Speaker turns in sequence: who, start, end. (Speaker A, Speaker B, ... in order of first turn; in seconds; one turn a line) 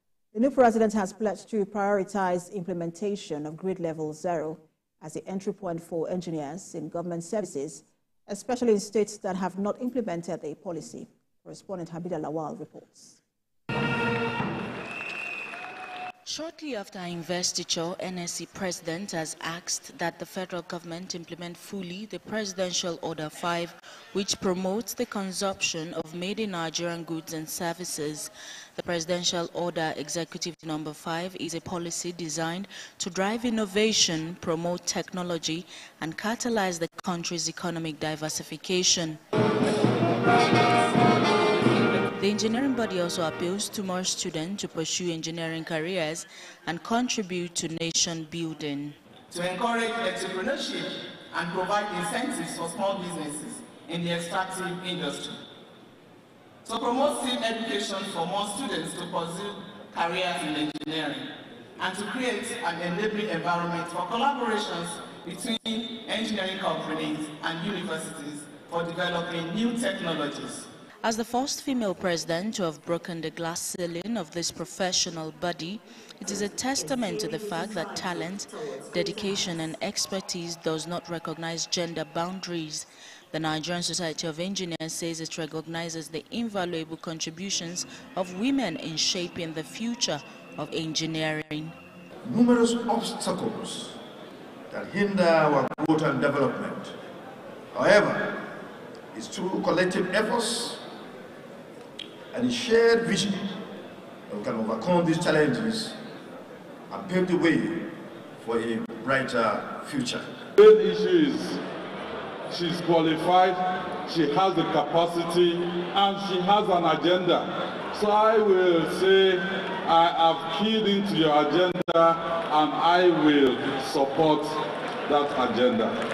Speaker A: 0.3-13.2
Speaker B: 16.3-39.2
Speaker B: 42.2-49.0
Speaker C: 49.3-55.4
Speaker C: 56.6-70.7
Speaker B: 71.0-91.8
Speaker D: 92.2-94.0
Speaker D: 94.7-97.0
Speaker D: 97.7-98.5
Speaker D: 99.1-100.8
Speaker D: 102.3-103.5
Speaker D: 104.3-106.0
Speaker D: 106.9-110.3
Speaker E: 110.6-111.6
Speaker E: 112.5-125.9